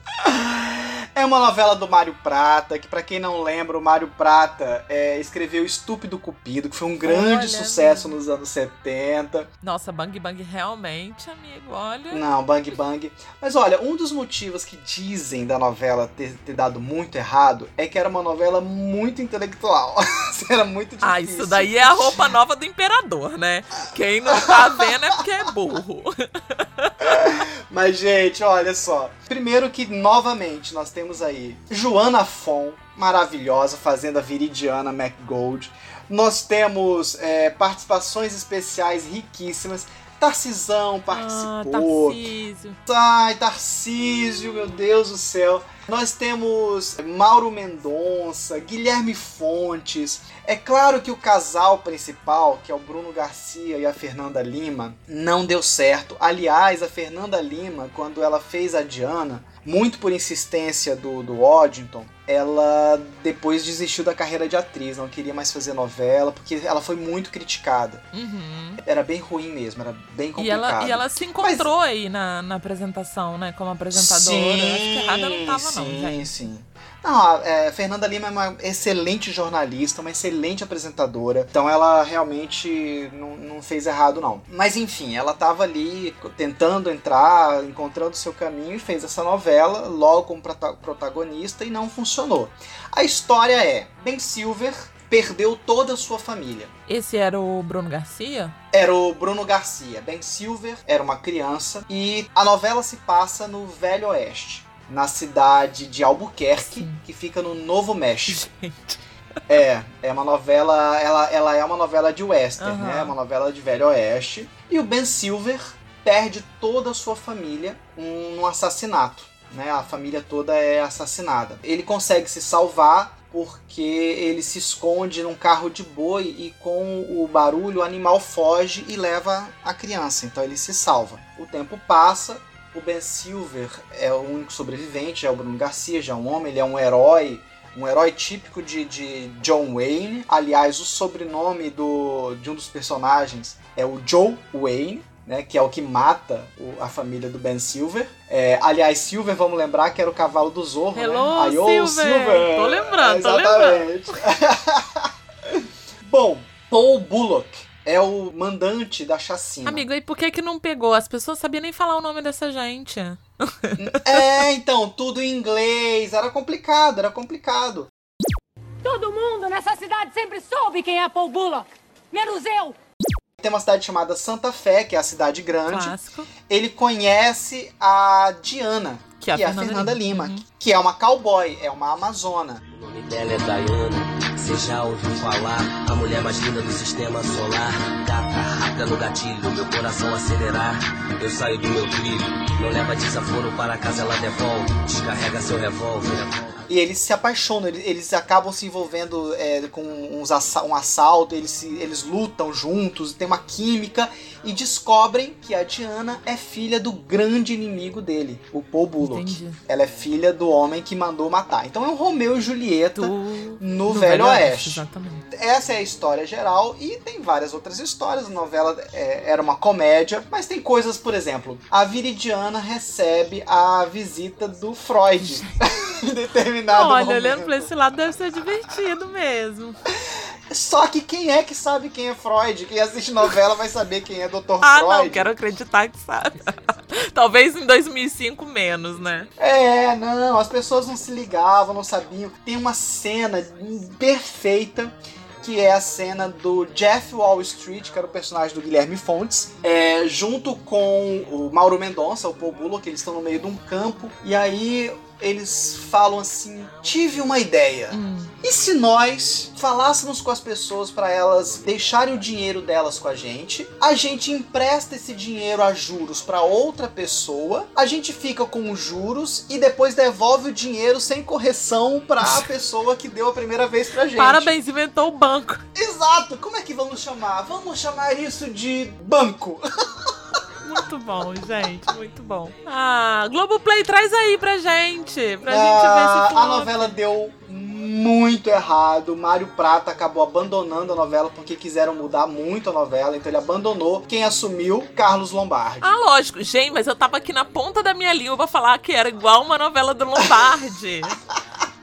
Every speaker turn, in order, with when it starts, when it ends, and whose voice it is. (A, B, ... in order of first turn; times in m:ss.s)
0:00.2-0:09.5 A
0:07.0-0:08.1 B
0:09.6-0:12.2 B
0:12.1-0:22.3 A
0:21.0-0:26.9 B
0:24.3-0:24.8 A
0:27.0-0:42.2 A
0:41.1-0:42.8 B
0:42.9-1:08.0 A
1:08.1-1:08.8 B
1:08.8-1:11.7 A
1:10.4-1:16.3 B
1:13.9-1:36.7 A
1:36.9-1:38.6 B
1:38.7-1:48.5 A
1:46.6-1:47.0 B
1:48.3-1:49.0 B
1:49.5-2:39.8 A
1:52.6-1:53.1 B
2:30.9-2:34.2 B
2:39.6-2:44.3 B
2:43.8-2:47.9 A
2:48.8-2:52.8 C
2:53.4-2:56.0 A
2:55.7-2:56.3 B
2:56.5-3:02.6 A
2:59.2-3:00.4 B
3:02.7-3:16.6 D
3:16.7-3:47.7 A
3:29.0-3:29.6 B
3:33.0-3:35.3 B
3:46.7-3:49.8 B
3:50.5-3:55.3 A
3:54.6-3:59.3 B
3:59.4-4:34.5 A
4:17.9-4:18.4 B
4:32.2-4:32.5 B
4:34.2-4:35.6 B
4:35.8-4:39.6 A
4:40.6-4:47.0 B
4:45.5-4:56.0 A
4:55.8-5:01.2 B